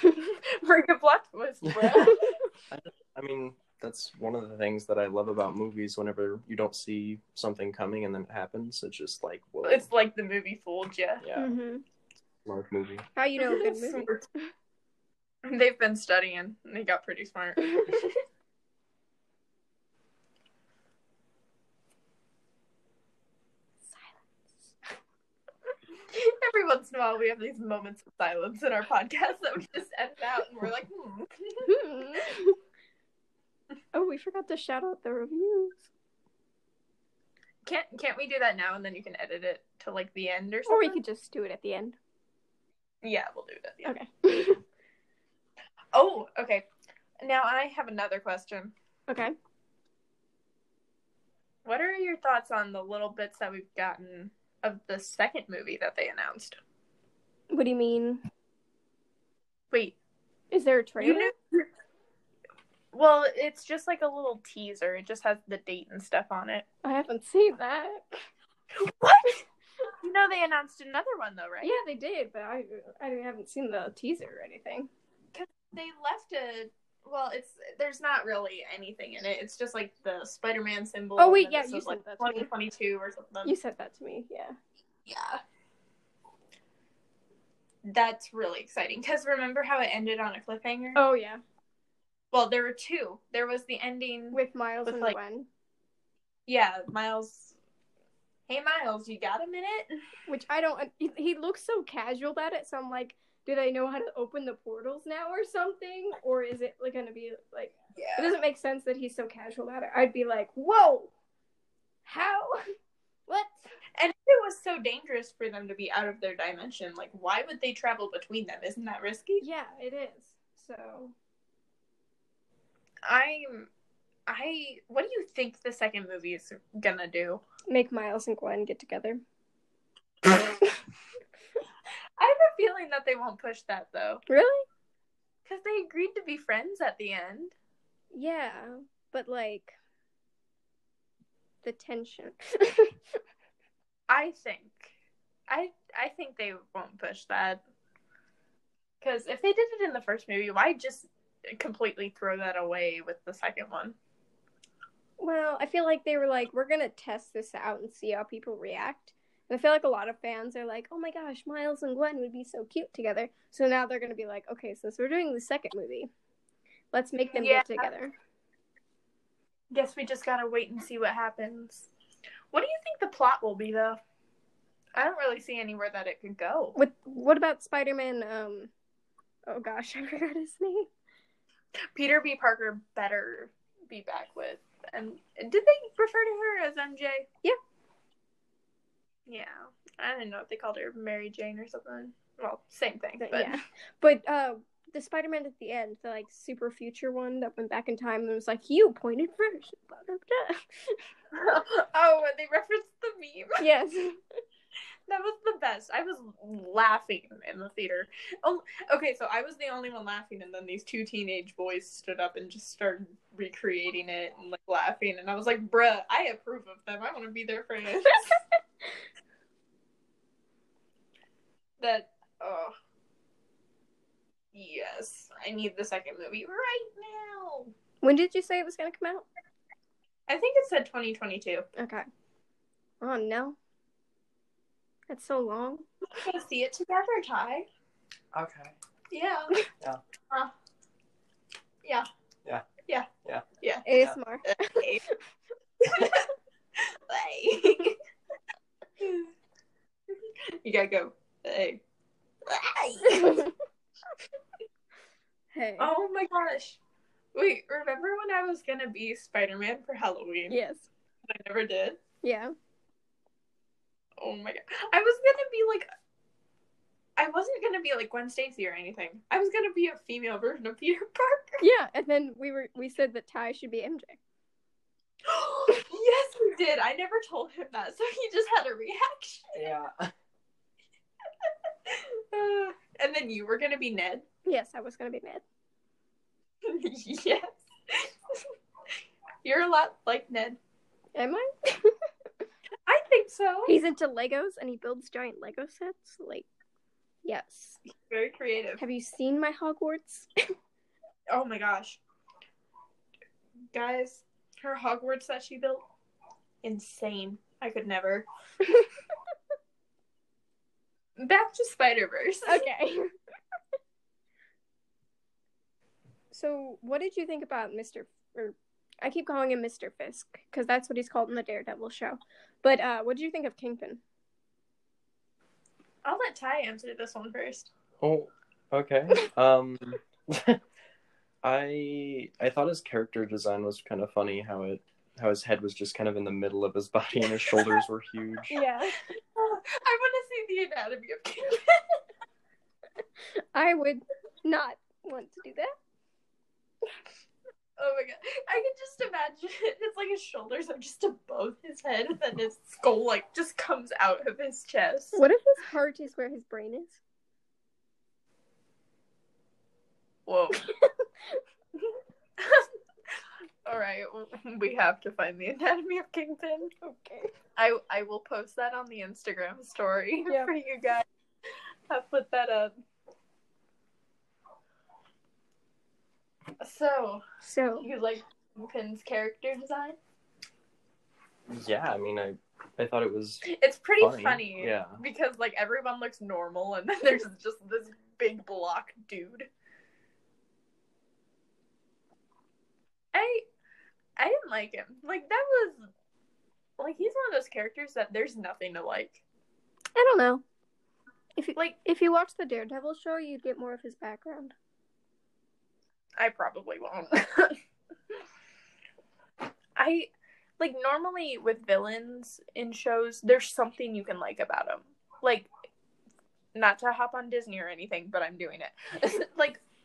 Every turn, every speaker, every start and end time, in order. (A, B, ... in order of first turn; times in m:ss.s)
0:00.2-0:02.4 A
0:01.6-0:09.9 B
0:09.6-0:11.2 A
0:11.2-0:11.6 B
0:11.4-0:11.8 C
0:12.4-0:13.0 B
0:13.2-0:14.5 C
0:13.4-0:14.2 A
0:15.4-0:18.1 A
0:26.1-0:32.2 A
0:31.6-0:32.6 C
0:33.9-0:35.8 C
0:37.6-0:41.0 A
0:40.7-0:42.0 C
0:43.0-0:43.9 A
0:43.8-0:44.6 C
0:45.9-0:46.6 A
0:47.2-0:48.7 A
0:49.1-0:49.3 C
0:51.6-0:56.6 A
0:57.5-0:58.2 C
1:00.5-1:01.3 C
1:01.0-1:01.7 A
1:02.9-1:06.6 A
1:06.8-1:08.2 C
1:08.8-1:09.4 A
1:10.0-1:11.7 A
1:11.6-1:14.9 C
1:15.3-1:23.5 A
1:21.2-1:22.5 C
1:23.4-1:24.6 C
1:25.0-1:25.4 A
1:27.8-1:31.0 A
1:31.0-1:31.4 C
1:32.3-1:35.2 A
1:34.3-1:35.5 C
1:36.5-1:37.6 A
1:38.5-1:40.0 A
1:40.3-1:51.1 C
1:48.0-1:48.4 A
1:52.0-1:52.6 C
1:53.3-1:53.7 C
1:54.0-1:59.4 A
1:59.4-2:01.1 C
2:03.0-2:03.7 A
2:04.3-2:07.4 A
2:07.7-2:09.2 C
2:12.2-2:14.2 A
2:14.3-2:14.6 C
2:15.4-2:17.5 A
2:18.1-2:19.8 C
2:21.6-2:22.9 C
2:24.1-2:24.9 A
2:25.5-2:27.6 A
2:29.0-2:34.0 A
2:35.2-2:46.1 C
2:46.9-2:48.1 C
2:47.3-2:47.9 A
2:49.7-2:51.9 A
2:52.5-2:54.0 A
2:54.9-2:56.8 A
2:56.8-2:58.7 C
2:59.5-3:00.9 C
3:01.9-3:07.3 A
3:09.3-3:13.6 A
3:13.2-3:21.0 C
3:21.3-3:23.6 A
3:23.6-3:24.2 C
3:25.1-3:38.4 A
3:41.8-3:42.7 A
3:44.5-3:47.7 A
3:48.0-3:49.2 C
3:50.3-3:51.7 A
3:51.8-3:52.0 C
3:53.0-3:53.6 C
3:55.1-3:55.8 C
3:56.1-3:57.7 A
3:58.3-3:58.7 B
3:59.1-3:59.6 A
4:03.2-4:04.2 B
4:03.6-4:03.8 A
4:03.8-4:04.8 C
4:04.5-4:05.0 A
4:05.9-4:08.0 A
4:09.0-4:09.3 A
4:10.1-4:11.8 A
4:12.4-4:13.5 A
4:13.1-4:13.5 C
4:15.5-4:15.9 C
4:15.8-4:16.8 A
4:17.3-4:20.6 A
4:20.5-4:20.9 C
4:21.2-4:22.0 A
4:22.2-4:22.5 C
4:24.2-4:25.9 A
4:27.2-4:31.6 A
4:31.6-4:34.2 C
4:35.2-4:39.7 A
4:39.5-4:40.1 B
4:41.8-4:44.2 A
4:44.4-4:45.4 C
4:46.6-4:48.5 A
4:49.4-4:50.6 A
4:51.1-4:51.9 C
4:52.8-4:53.7 A
4:53.7-4:56.5 C
4:57.2-4:57.8 C
4:58.0-4:58.8 A
4:58.8-5:00.3 C
5:01.3-5:02.0 A
5:03.7-5:05.8 A
5:06.6-5:08.2 A
5:11.2-5:12.6 A
5:12.5-5:13.1 C
5:16.3-5:24.0 C
5:26.0-5:27.7 A
5:28.0-5:30.6 B
5:31.4-5:38.6 B
5:37.3-5:37.8 A
5:38.5-5:39.0 C
5:39.1-5:42.0 A
5:43.5-5:45.7 C
5:47.8-5:55.2 A
5:55.1-5:57.0 C
6:00.3-6:00.7 A
6:00.5-6:01.4 C
6:02.4-6:02.7 A
6:03.6-6:06.7 A
6:06.8-6:07.3 C
6:07.6-6:11.0 A
6:11.9-6:12.7 A
6:16.6-6:17.2 A
6:17.4-6:17.9 C
6:17.8-6:20.0 A
6:21.5-6:23.4 B
6:23.4-6:29.5 A
6:24.0-6:25.0 B
6:33.1-6:33.4 A
6:34.2-6:35.8 A
6:36.8-6:39.2 A
6:40.0-6:40.4 C
6:41.4-6:44.5 C
6:46.2-6:47.6 A
6:49.8-6:50.1 A
6:50.6-6:55.5 A
6:56.5-6:59.6 A